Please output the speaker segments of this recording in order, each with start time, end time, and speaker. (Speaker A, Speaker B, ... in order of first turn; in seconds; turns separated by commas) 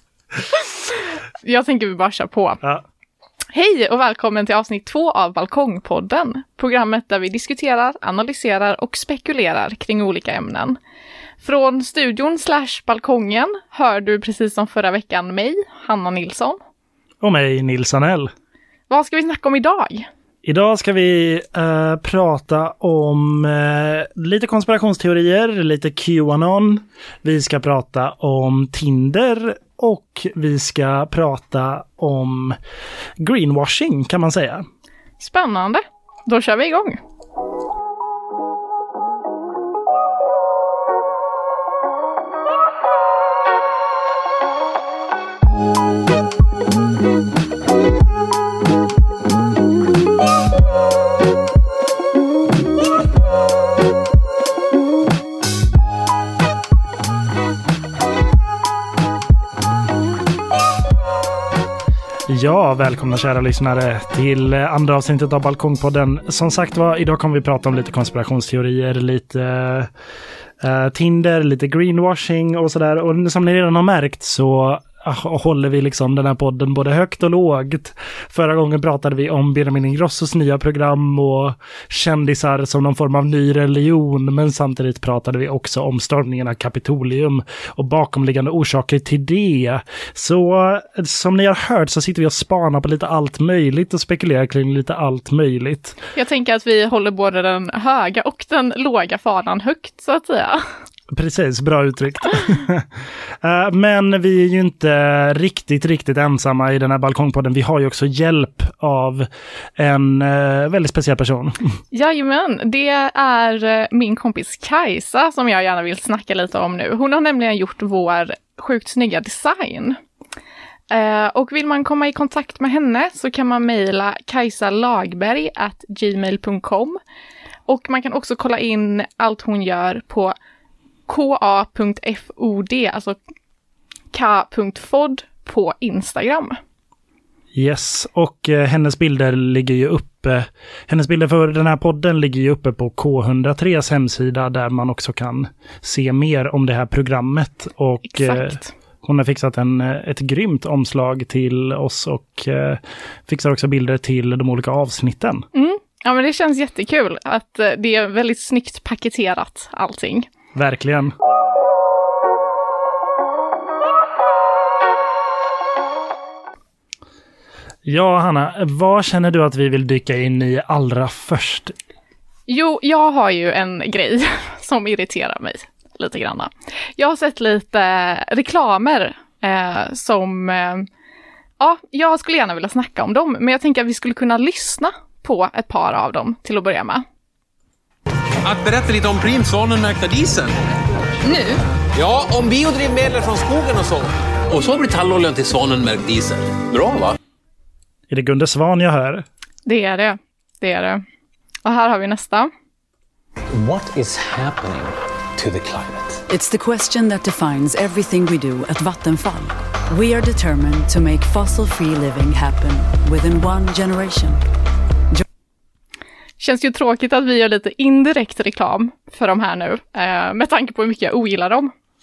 Speaker A: 0.5-2.6, Speaker A: 3.5-10.8, Speaker A: 11.4-16.6, Speaker B: 17.2-18.3, Speaker A: 18.9-20.1, Speaker B: 20.4-32.6, Speaker B: 33.2-34.7, Speaker A: 35.2-37.0, Speaker B: 62.3-69.9, Speaker B: 70.6-96.0, Speaker A: 96.2-100.6, Speaker B: 101.1-102.9, Speaker B: 103.4-111.6, Speaker A: 111.9-120.0, Speaker A: 120.9-127.0, Speaker A: 127.7-130.3, Speaker A: 131.1-133.2, Speaker A: 134.1-136.6, Speaker B: 137.5-155.5, Speaker A: 148.1-148.7, Speaker A: 155.5-160.3, Speaker B: 160.5-161.1, Speaker B: 167.8-171.8, Speaker A: 172.5-180.9, Speaker A: 181.6-187.0, Speaker C: 188.4-190.5, Speaker A: 191.2-191.6, Speaker C: 191.9-197.2, Speaker B: 198.1-199.2, Speaker A: 199.7-201.0, Speaker A: 201.7-202.5, Speaker D: 203.5-206.2, Speaker E: 206.3-214.4, Speaker A: 216.4-221.7